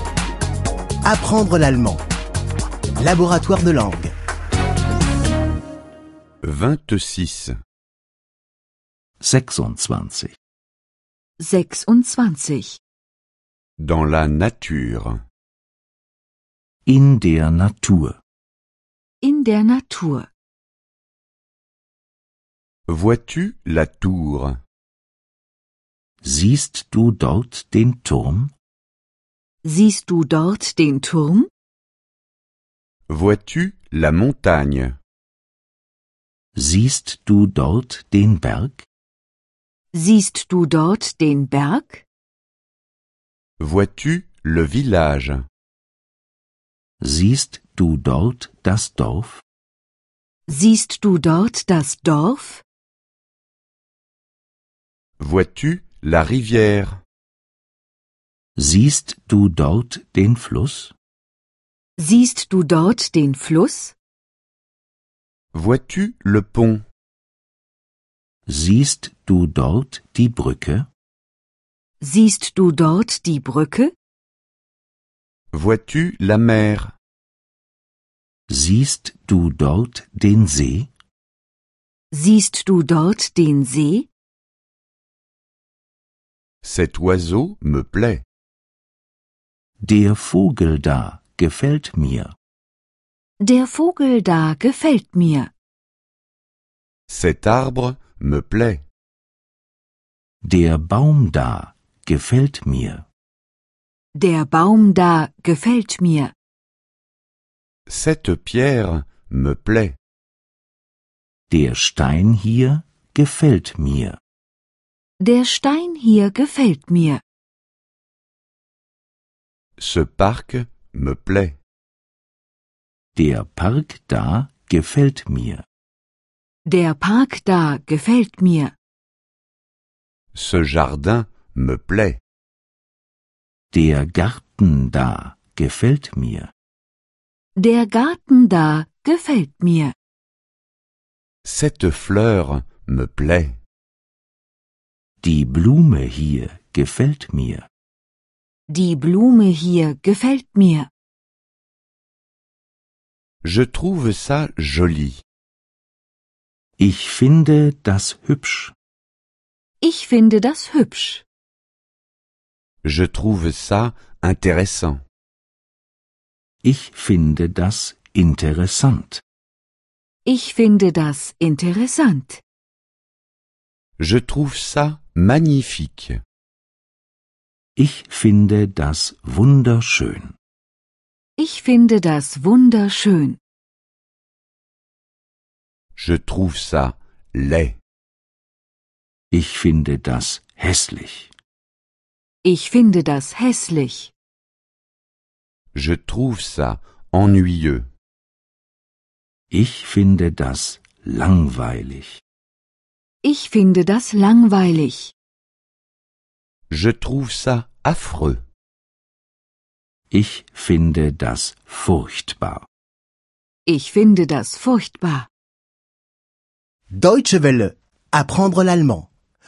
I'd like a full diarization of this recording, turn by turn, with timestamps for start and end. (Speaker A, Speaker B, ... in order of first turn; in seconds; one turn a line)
Speaker A: 1.0-2.0
Speaker A: 3.0-4.1
Speaker B: 6.4-7.5
Speaker C: 9.2-10.3
Speaker D: 11.4-12.8
Speaker B: 13.8-15.2
Speaker C: 16.9-18.2
Speaker D: 19.2-20.3
Speaker B: 22.9-24.6
Speaker C: 26.2-28.5
Speaker D: 29.6-31.5
Speaker B: 33.1-35.0
Speaker C: 36.5-38.9
Speaker D: 39.9-42.0
Speaker B: 43.6-45.4
Speaker C: 47.0-49.4
Speaker D: 50.5-52.6
Speaker B: 55.2-57.0
Speaker C: 58.6-60.9
Speaker D: 62.0-64.0
Speaker B: 65.5-66.8
Speaker C: 68.5-70.9
Speaker D: 72.0-73.9
Speaker B: 75.5-76.9
Speaker C: 78.5-80.9
Speaker D: 82.1-84.1
Speaker B: 86.6-88.2
Speaker C: 89.8-92.3
Speaker D: 93.4-95.5
Speaker B: 97.1-98.8
Speaker C: 100.4-103.0
Speaker D: 104.1-106.3
Speaker B: 107.9-109.9
Speaker C: 111.5-114.2
Speaker D: 115.2-117.2
Speaker B: 119.8-121.5
Speaker C: 123.2-125.6
Speaker D: 126.6-128.7
Speaker B: 130.3-132.2
Speaker C: 133.7-136.5
Speaker D: 137.6-139.9
Speaker B: 141.4-143.6
Speaker C: 145.2-147.7
Speaker D: 148.7-150.9
Speaker B: 153.4-155.2
Speaker C: 156.8-158.7
Speaker D: 159.8-161.2
Speaker B: 162.8-165.0
Speaker C: 166.6-169.2
Speaker D: 170.2-172.4
Speaker B: 174.0-176.2
Speaker C: 177.8-180.3
Speaker D: 181.4-183.4
Speaker B: 185.9-187.8
Speaker C: 189.3-191.3
Speaker D: 192.4-194.1
Speaker B: 195.7-197.9
Speaker C: 199.5-202.2
Speaker D: 203.2-205.1
Speaker B: 206.7-208.4
Speaker C: 210.1-212.7
Speaker D: 213.7-215.3
Speaker A: 216.9-219.1